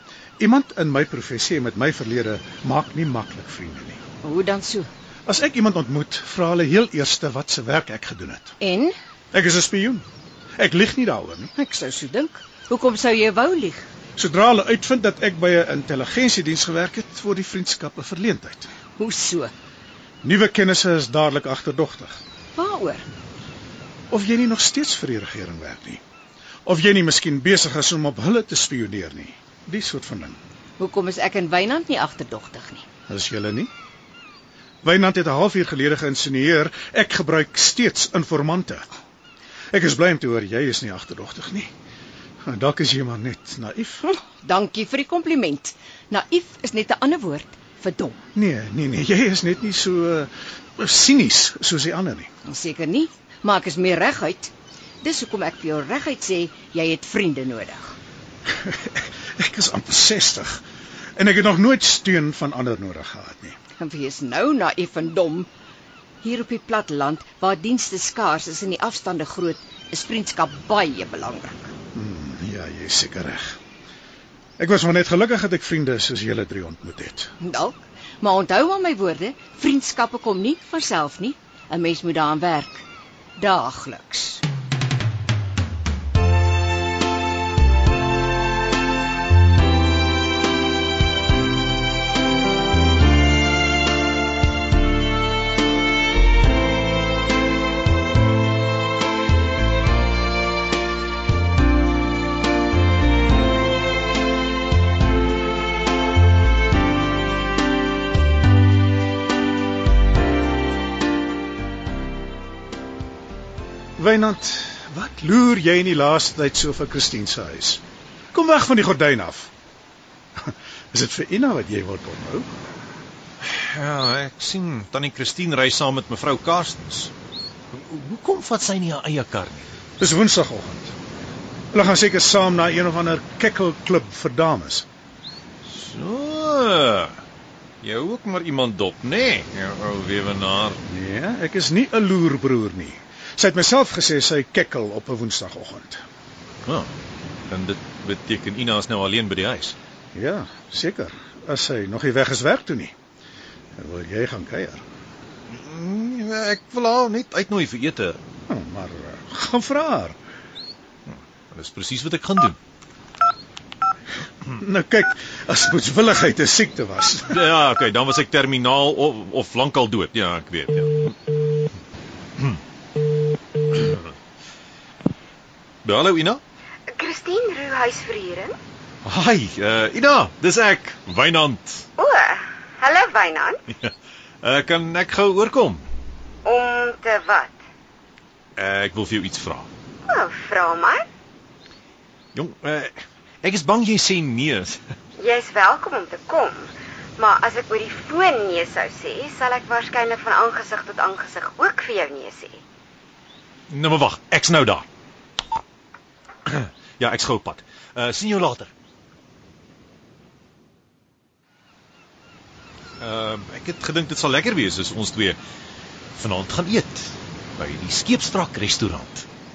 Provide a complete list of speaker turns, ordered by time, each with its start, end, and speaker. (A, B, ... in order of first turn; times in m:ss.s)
0:00.4-0:04.0 A
0:04.2-0:04.9 B
0:05.3-0:08.6 A
0:08.6-0:09.0 B
0:09.3-0:10.0 A
0:10.6-0:11.5 A
0:11.6-0:13.9 B
0:14.2-0:18.7 A
0:19.0-0:19.5 B
0:20.2-0:22.2 A
0:22.6-0:23.1 B
0:24.1-0:26.0 A
0:26.7-0:30.4 A
0:30.8-0:32.8 B
0:33.1-0:33.7 A
0:34.8-0:38.9 A
0:39.7-0:41.7 A
0:42.4-0:44.1 A
0:44.4-0:48.2 B
0:48.4-0:52.3 A
0:52.4-0:58.0 B
0:58.5-1:00.6 A
1:01.2-1:03.6 A
1:03.8-1:05.5 B
1:06.2-1:11.7 B
1:11.9-1:13.6 A
1:14.6-1:17.3 A
1:17.4-1:22.8 B
1:23.4-1:24.4 B
1:54.0-1:57.8 A
1:58.3-1:59.5 A
2:00.4-2:02.5 A
2:03.4-2:07.1 C
2:07.7-2:09.7 C
2:10.0-2:10.9 A
2:11.7-2:14.9 A
2:15.7-2:17.2 C
2:17.8-2:20.8 C
2:20.9-2:26.0 A
2:26.6-2:26.9 C
2:27.5-2:29.8 C
2:30.1-2:32.9 A
2:33.8-2:34.8 A
2:35.5-2:38.2 C
2:38.5-2:40.2 A
2:41.1-2:42.6 C
2:44.5-2:47.4 A
2:47.3-2:51.2 C
2:55.8-2:56.4 C
2:56.9-2:58.6 D
2:59.0-3:01.8 C
3:02.0-3:03.6 D
3:04.4-3:05.8 C
3:06.4-3:07.6 D
3:08.6-3:09.7 C
3:10.1-3:11.1 D
3:12.3-3:14.8 C
3:15.2-3:22.6 D
3:23.7-3:24.8 C
3:26.5-3:28.7 C
3:33.0-3:35.4 C
3:36.2-3:39.3 C